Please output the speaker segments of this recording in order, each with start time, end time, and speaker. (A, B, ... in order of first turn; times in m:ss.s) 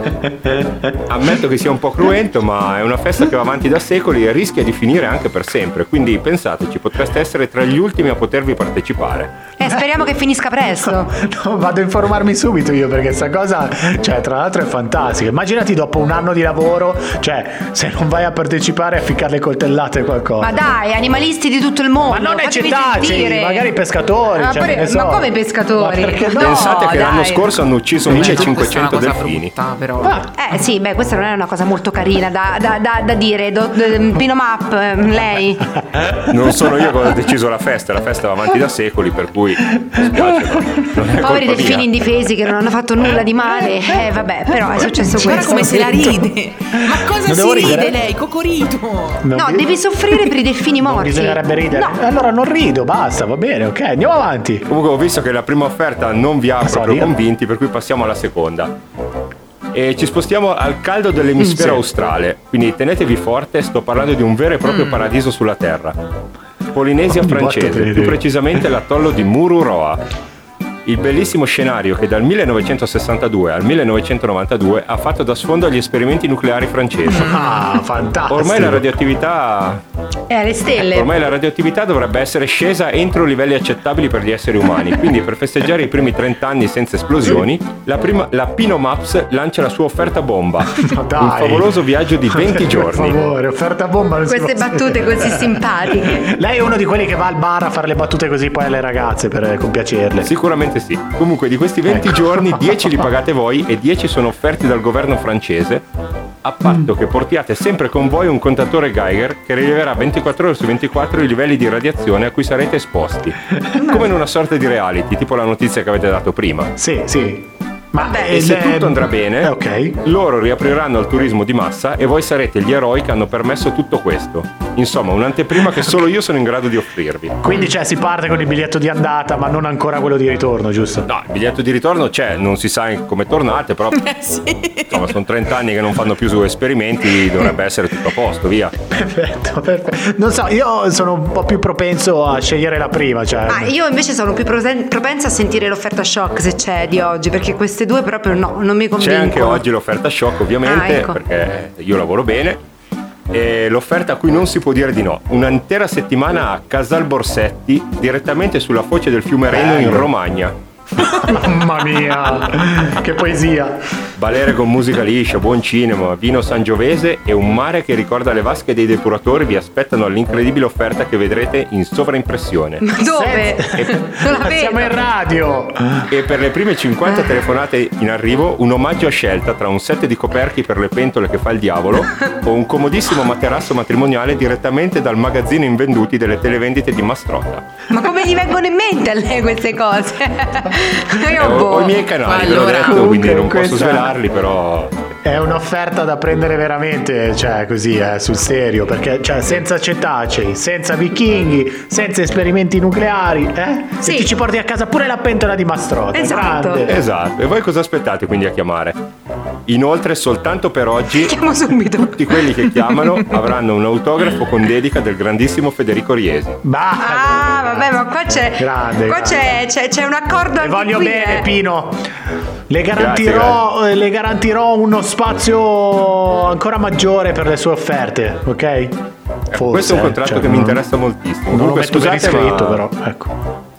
0:00.9-0:09.3 A
0:09.6-0:11.1 B
0:10.8-0:20.5 C
0:20.4-0:23.7 B
0:22.1-0:26.8 C
0:24.3-0:27.5 B
0:26.3-0:29.5 A
0:28.0-0:30.2 D
0:30.3-0:35.8 B
0:36.1-0:41.9 A
0:41.1-0:46.1 B
0:45.1-0:49.2 D
0:46.7-0:48.0 C
0:49.2-0:49.7 C
0:49.3-0:52.0 B
0:50.8-0:54.7 C
0:54.7-0:58.7 A
0:56.6-0:57.1 C
0:59.7-1:06.0 A
1:01.4-1:01.7 B
1:06.7-1:10.0 A
1:07.1-1:08.2 C
1:10.8-1:17.3 A
1:17.0-1:18.9 C
1:18.3-1:19.8 A
1:20.3-1:21.1 B
1:20.8-1:33.2 A
1:30.8-1:40.3 C
1:34.2-1:36.3 B
1:40.2-1:45.8 A
1:41.8-1:42.9 C
1:46.4-1:56.7 A
1:56.8-2:00.0 C
1:58.0-2:07.4 A
2:07.4-2:11.1 C
2:11.0-2:18.7 A
2:14.0-2:15.0 D
2:18.9-2:23.7 C
2:23.5-2:29.6 B
2:29.0-2:32.6 A
2:30.6-2:31.2 B
2:33.3-2:40.6 A
2:39.5-2:40.1 C
2:41.0-2:43.8 C
2:44.2-2:52.9 A
2:52.8-2:55.0 B
2:53.0-2:56.1 C
2:56.1-3:07.7 A
3:07.9-3:12.0 B
3:11.4-3:14.9 A
3:12.2-3:13.2 D
3:12.8-3:14.2 C
3:15.2-3:27.0 C
3:24.0-3:24.3 B
3:26.1-3:26.8 B
3:26.8-3:29.0 A
3:29.7-3:31.3 A
3:31.1-3:33.4 B
3:32.0-3:36.6 A
3:36.6-3:38.0 C
3:37.0-3:41.5 B
3:38.5-3:39.5 C
3:40.6-3:42.0 C
3:42.7-3:49.0 C
3:42.9-3:43.6 A
3:49.5-3:52.8 A
3:49.5-3:50.8 C
3:51.5-3:53.3 C